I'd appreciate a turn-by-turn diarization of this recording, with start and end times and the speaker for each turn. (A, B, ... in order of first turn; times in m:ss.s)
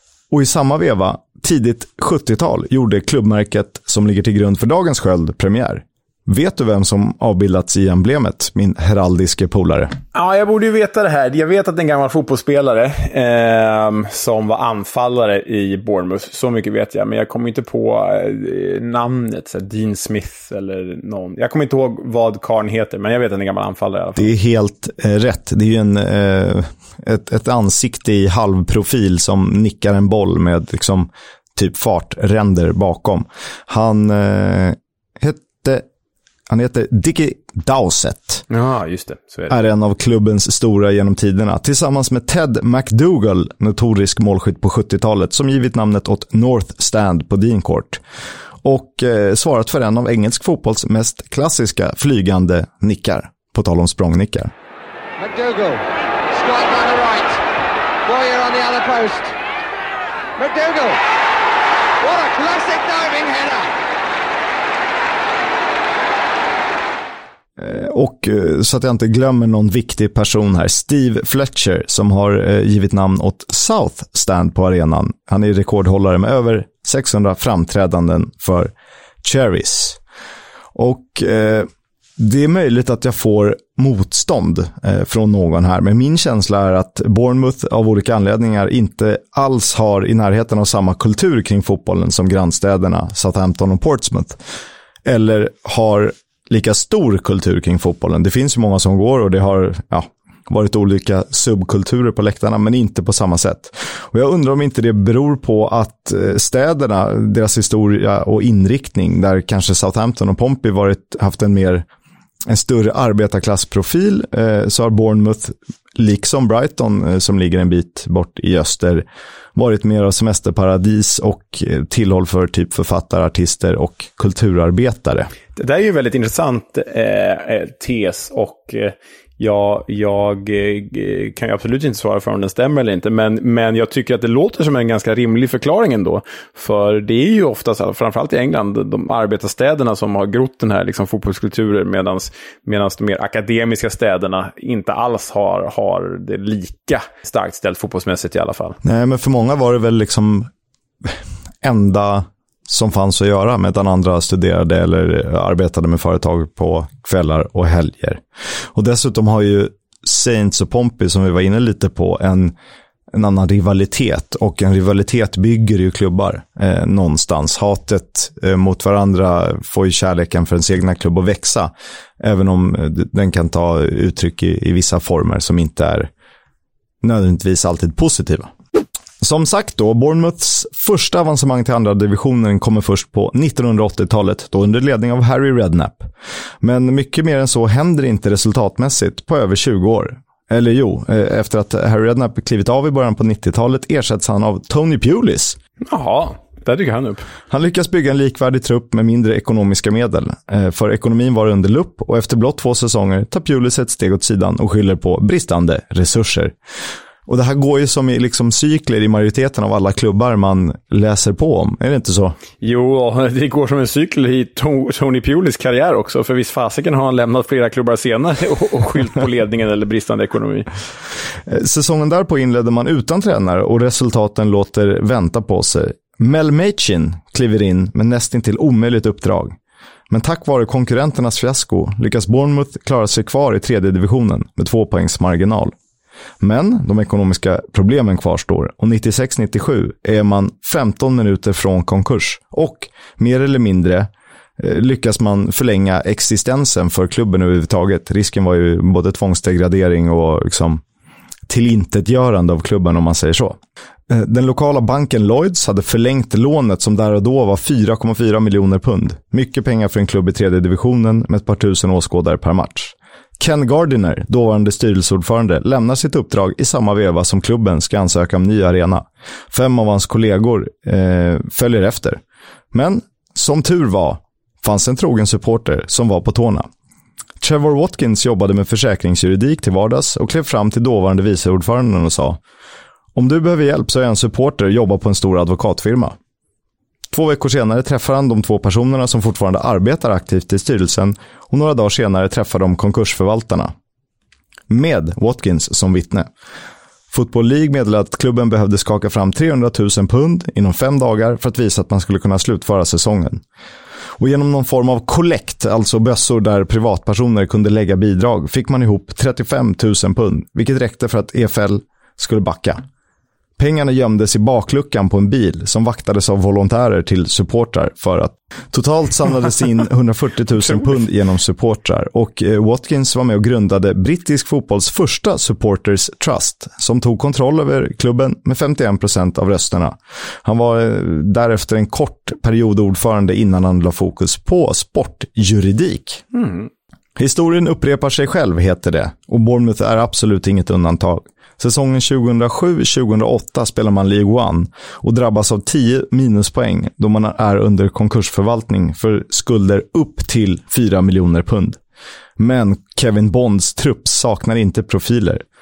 0:00.3-0:09.9 A
0:10.1-0:24.3 B
0:24.2-0:35.8 A
0:36.5-0:38.4 A
0:38.5-0:39.5 B
0:39.5-0:48.0 A
0:48.6-0:54.5 A
0:55.2-0:57.4 C
0:58.0-0:59.4 C
1:00.4-1:01.0 C
1:02.0-1:03.7 C
1:07.6-1:18.7 A
1:19.2-1:20.0 A
1:20.7-1:34.4 A
1:35.0-1:51.8 A
1:52.5-2:05.3 A
2:05.5-2:28.8 B
2:28.8-2:30.5 A
2:31.0-2:38.2 A
2:38.7-2:42.5 A
2:43.1-2:56.1 A
2:57.0-2:58.5 A
2:59.2-3:06.1 A
3:06.6-3:15.6 A
3:15.8-3:17.2 B
3:17.5-3:26.5 A
3:27.3-3:32.4 A
3:32.6-3:40.7 B
3:41.5-3:49.6 A
3:50.1-3:55.7 A
3:56.4-4:10.8 A
4:11.5-4:32.2 A
4:32.7-4:36.7 A
4:37.4-4:42.4 A
4:43.1-4:46.2 A
4:47.1-4:53.7 A
4:54.7-4:56.3 A
4:57.1-5:03.4 A
5:04.2-5:12.8 A
5:13.6-5:36.2 A
5:36.3-5:36.7 B
5:37.2-5:51.8 A
5:52.4-5:55.4 A